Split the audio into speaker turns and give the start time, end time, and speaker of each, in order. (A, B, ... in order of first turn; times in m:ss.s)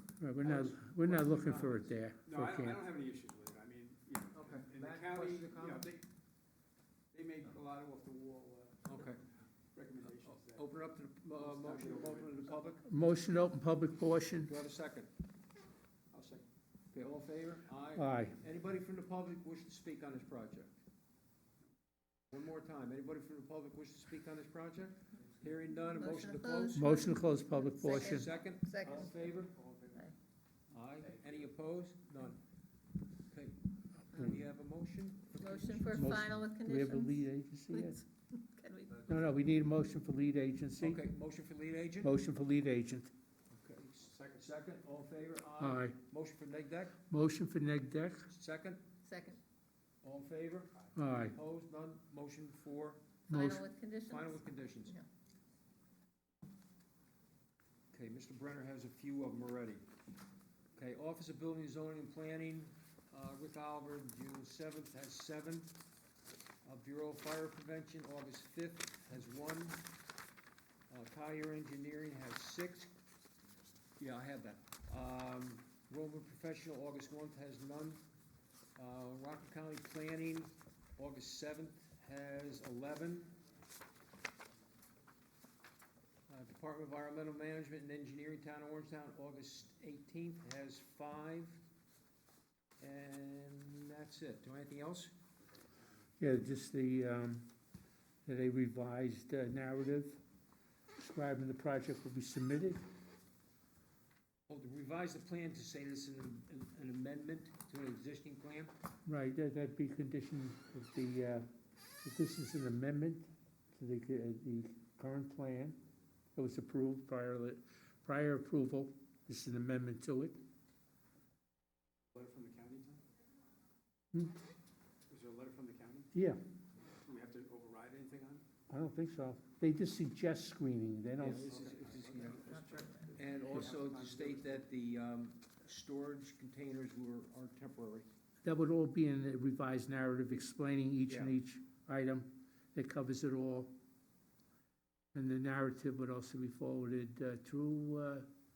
0:00.2-0:02.9 A
0:00.4-0:01.9 B
0:02.2-0:06.1 C
0:04.3-0:05.9 B
0:07.1-0:09.1 C
0:08.9-0:09.2 B
0:09.7-0:10.7 C
0:10.0-0:12.9 B
0:11.3-0:12.6 C
0:12.8-0:14.5 A
0:14.4-0:15.1 B
0:16.1-0:16.5 C
0:16.9-0:20.7 B
0:18.0-0:18.4 A
0:22.3-0:26.9 B
0:25.9-0:29.1 D
0:26.7-0:28.3 A
0:27.8-0:29.5 B
0:28.4-0:30.0 C
0:30.7-0:32.4 B
0:33.3-0:33.6 B
0:34.1-0:36.1 B
0:35.4-0:39.1 D
0:36.0-0:38.0 A
0:39.1-0:41.0 A
0:40.8-0:42.1 B
0:42.0-0:43.1 A
0:43.6-0:47.0 B
0:43.6-0:44.6 C
0:45.6-0:46.0 A
0:47.1-0:48.3 A
0:48.3-0:48.8 B
0:49.0-0:49.4 D
0:50.0-0:53.0 B
0:51.0-0:51.4 A
0:53.3-0:55.1 D
0:53.3-0:53.7 A
0:54.1-0:55.0 B
0:57.9-0:59.8 B
1:00.8-1:05.7 B
1:06.6-1:09.8 B
1:10.9-1:12.9 B
1:14.0-1:18.0 B
1:18.8-1:23.4 B
1:26.3-1:31.6 B
1:32.8-1:35.1 B
1:36.2-1:37.5 A
1:38.3-1:40.2 A
1:41.0-1:42.8 A
1:44.5-1:48.7 B
1:49.1-1:51.5 A
1:52.0-1:55.8 A
1:56.4-2:00.4 A
2:02.1-2:03.0 C
2:05.1-2:06.1 C
2:06.1-2:06.4 A
2:07.0-2:08.5 C
2:08.7-2:11.6 A
2:11.2-2:12.5 B
2:11.4-2:14.7 C
2:12.4-2:13.2 D
2:13.1-2:18.1 B
2:18.4-2:23.7 A
2:21.1-2:21.3 B
2:25.1-2:28.3 A